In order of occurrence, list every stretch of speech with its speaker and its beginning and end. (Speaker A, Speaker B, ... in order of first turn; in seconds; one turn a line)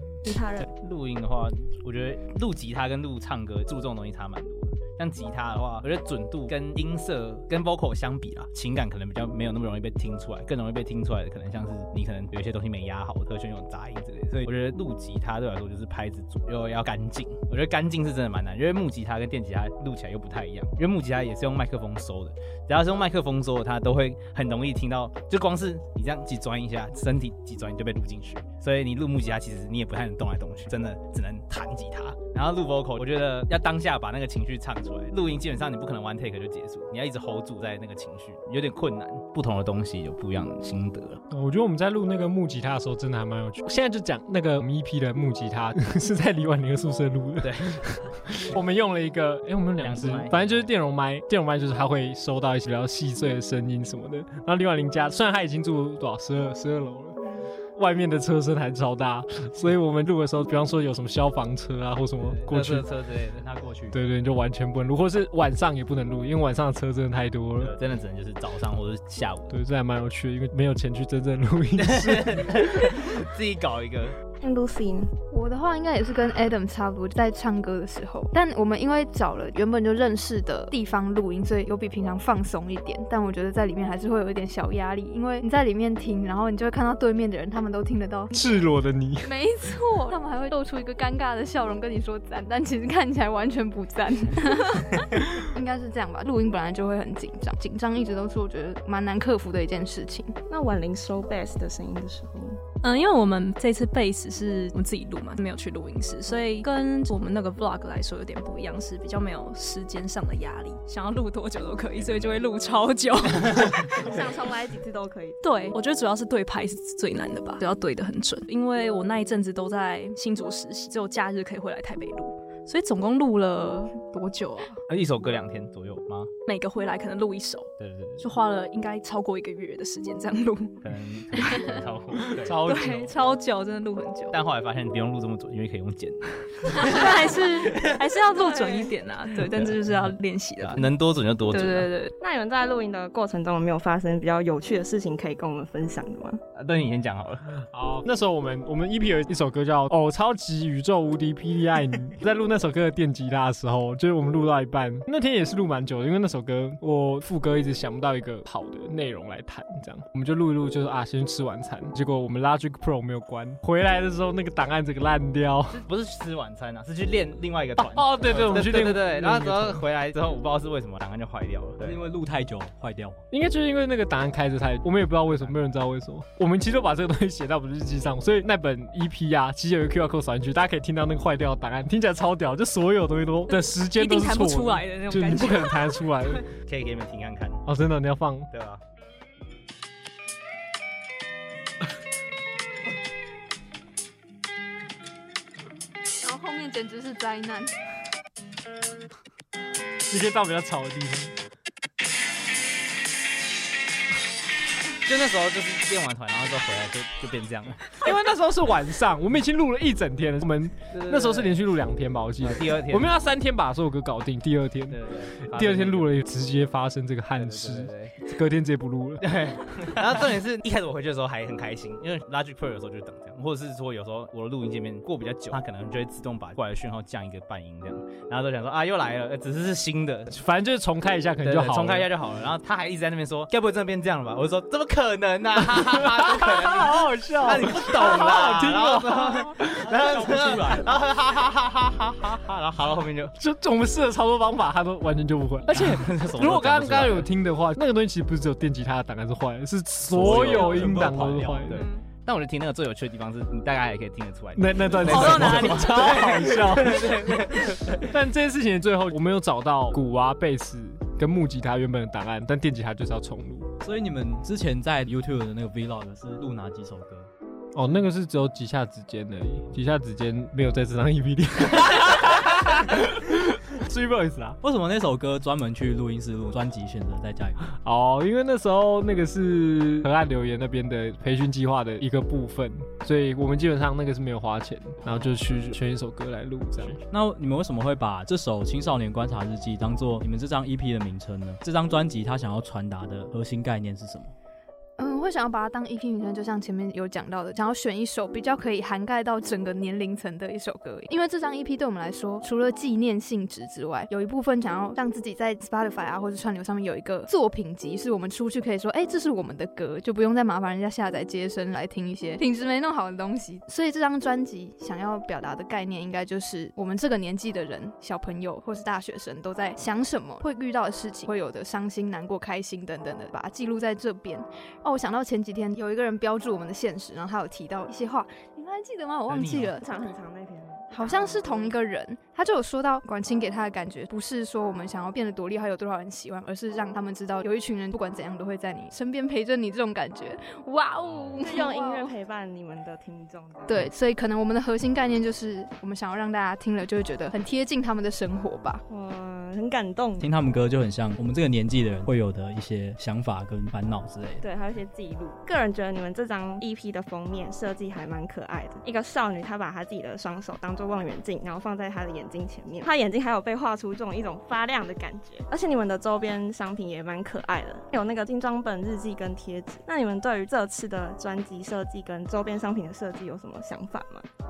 Speaker A: 0.2-0.7
Speaker B: 0.6-41.2
Speaker C: 41.3-57.2
Speaker B: 47.4-47.8
Speaker B: 49.8-50.7
Speaker C: 57.8-62.9
Speaker B: 62.2-63.5
Speaker D: 63.4-64.0
Speaker C: 63.9-67.8
Speaker B: 67.6-69.6
Speaker C: 69.5-73.0
Speaker B: 71.8-74.2
Speaker A: 74.4-75.1
Speaker E: 75.3-88.3
Speaker C: 88.3-89.3
Speaker E: 89.2-100.4
Speaker A: 100.5-102.6
Speaker F: 102.8-114.0
Speaker B: 112.0-112.5
Speaker A: 114.0-115.4
Speaker F: 115.4-124.7
Speaker B: 124.9-126.3
Speaker F: 126.5-130.8
Speaker B: 127.8-128.3
Speaker B: 130.8-132.8
Speaker F: 131.4-131.7
Speaker C: 132.4-133.1
Speaker F: 132.6-134.4
Speaker B: 134.3-137.5
Speaker F: 136.7-140.9
Speaker A: 138.3-138.9
Speaker B: 139.4-139.8
Speaker B: 140.6-141.9
Speaker F: 141.5-142.1
Speaker A: 142.2-146.4
Speaker B: 146.6-147.4
Speaker C: 147.6-165.8
Speaker B: 165.7-172.0
Speaker C: 167.8-169.8
Speaker D: 171.8-173.2
Speaker C: 173.3-186.5
Speaker F: 183.7-186.0
Speaker B: 186.7-187.7
Speaker C: 187.7-188.5
Speaker B: 188.5-188.8
Speaker E: 196.2-197.8
Speaker C: 200.1-201.3
Speaker B: 205.0-208.1
Speaker C: 208.0-219.3
Speaker B: 210.9-211.6
Speaker B: 212.4-213.1
Speaker B: 214.9-216.1
Speaker B: 217.4-218.2
Speaker B: 219.2-230.3
Speaker C: 230.3-232.1
Speaker B: 231.4-243.3
Speaker C: 235.8-239.7
Speaker D: 239.9-240.8
Speaker C: 243.4-251.8
Speaker B: 245.7-247.3
Speaker B: 250.1-258.1
Speaker D: 250.2-251.6
Speaker F: 251.7-252.0
Speaker C: 254.6-257.5
Speaker F: 255.1-256.3
Speaker C: 258.1-263.7
Speaker D: 263.8-267.3
Speaker C: 267.8-274.6
Speaker D: 274.6-277.7
Speaker C: 277.7-287.0
Speaker D: 287.1-294.3
Speaker E: 295.0-329.9
Speaker B: 329.3-329.7
Speaker A: 329.8-331.8
Speaker E: 330.9-342.1
Speaker B: 341.0-341.4
Speaker A: 341.4-343.9
Speaker E: 343.7-348.8
Speaker A: 348.9-350.3
Speaker D: 350.2-354.4
Speaker A: 354.4-374.3